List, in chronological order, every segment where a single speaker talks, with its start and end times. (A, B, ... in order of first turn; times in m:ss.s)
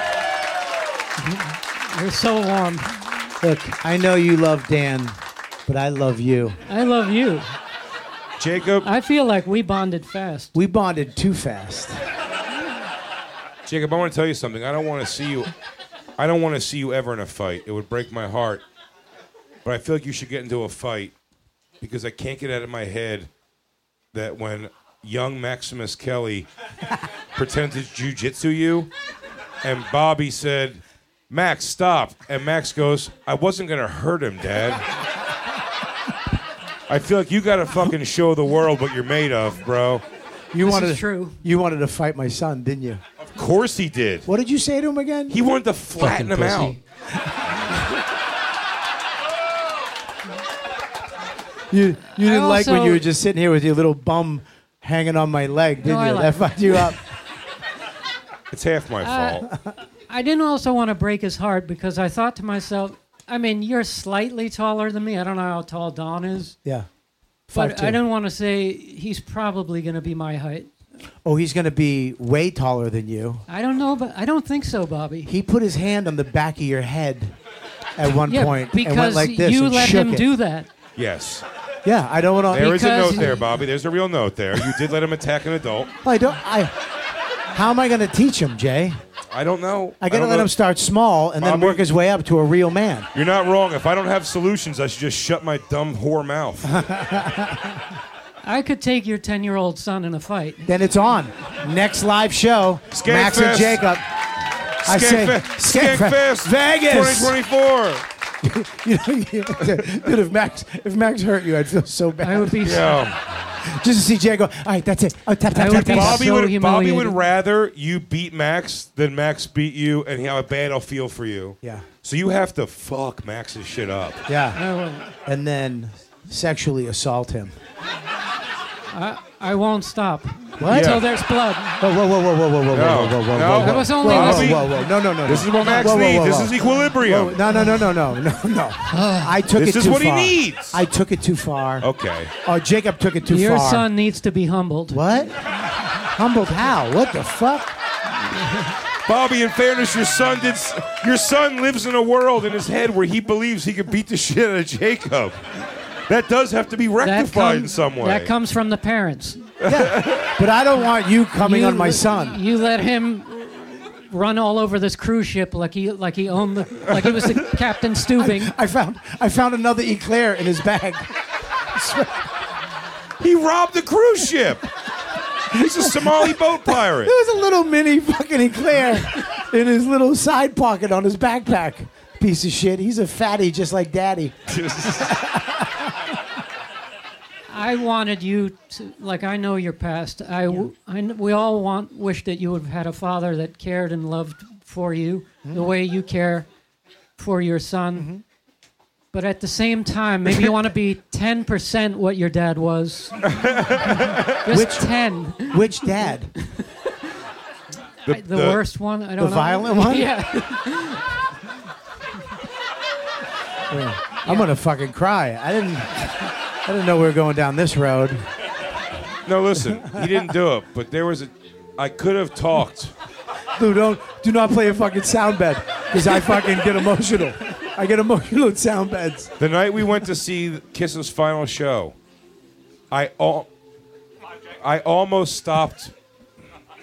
0:01.2-0:03.1 A
0:03.4-0:06.6 B
0:06.7-0:07.5 A
0:08.4-0:08.9 C
0:08.8-0:10.5 A
0:10.5-0:12.0 B
0:13.7-0:15.5 C
0:16.2-0:18.6 C
0:19.6-0:21.1 C
0:21.8-0:23.3 C
0:24.1-0:26.5 C
0:27.4-0:28.9 C
0:29.6-0:34.8 C
0:36.9-0:40.0 C
0:40.5-0:43.0 B
0:40.6-0:41.4 A
0:43.4-0:44.3 C
0:44.3-0:45.4 B
0:45.3-0:46.8 C
0:46.0-0:46.8 B
0:51.7-0:57.0 B
0:52.2-0:53.1 A
0:55.8-0:56.9 A
0:58.5-0:59.5 C
0:59.0-0:59.5 A
1:00.1-1:06.6 A
1:07.5-1:08.0 B
1:07.5-1:10.7 A
1:11.2-1:13.4 B
1:13.5-1:15.3 A
1:15.3-1:17.4 B
1:18.0-1:20.3 B
1:18.2-1:20.7 A
1:21.0-1:21.5 C
1:21.8-1:23.4 B
1:22.5-1:25.9 C
1:22.6-1:23.4 A
1:26.0-1:26.8 B
1:27.5-1:29.0 B
1:29.3-1:30.5 C
1:30.0-1:33.1 B
1:31.4-1:31.8 C
1:33.1-1:36.8 C
1:36.6-1:37.8 B
1:38.4-1:40.6 A
1:40.6-1:44.0 B
1:42.9-1:43.9 C
1:44.8-1:48.0 C
1:44.8-1:47.4 B
1:48.4-1:52.8 B
1:52.2-1:53.0 A
1:52.6-1:53.2 C
1:53.6-1:56.3 B
1:55.5-1:57.2 A
1:55.7-2:04.2 C
2:01.6-2:01.9 B
2:04.3-2:04.6 B
2:04.6-2:05.2 A
2:05.3-2:07.5 B
2:08.9-2:11.8 A
2:10.6-2:11.1 B
2:10.7-2:11.0 C
2:11.8-2:21.9 B
2:12.7-2:17.4 C
2:13.6-2:14.7 A
2:18.9-2:19.3 A
2:19.6-2:20.8 C
2:21.8-2:22.3 C
2:22.4-2:23.9 B
2:23.3-2:25.0 A
2:24.9-2:25.3 B
2:26.0-2:27.7 B
2:29.1-2:38.3 C
2:37.0-2:39.5 A
2:39.6-2:40.4 C
2:39.6-2:42.4 B
2:41.4-2:48.5 A
2:48.2-2:51.2 B
2:51.7-2:52.2 B
2:53.2-2:54.7 C
2:55.5-2:57.1 C
2:55.5-2:56.4 B
2:56.9-3:05.9 B
3:04.6-3:05.0 C
3:07.5-3:16.5 A
3:17.2-3:18.1 A
3:18.0-3:18.2 B
3:19.1-3:23.4 A
3:23.3-3:24.4 C
3:24.4-3:25.9 A
3:24.5-3:24.9 B
3:25.5-3:26.3 B
3:28.1-3:28.6 C
3:28.1-3:31.0 A
3:29.2-3:30.1 B
3:33.7-3:36.1 B
3:34.2-3:34.5 A
3:36.6-3:38.3 B
3:39.3-3:42.9 C
3:39.7-3:40.2 B
3:43.6-3:49.3 B
3:49.4-3:52.0 C
3:52.9-3:53.5 C
3:54.6-3:55.9 C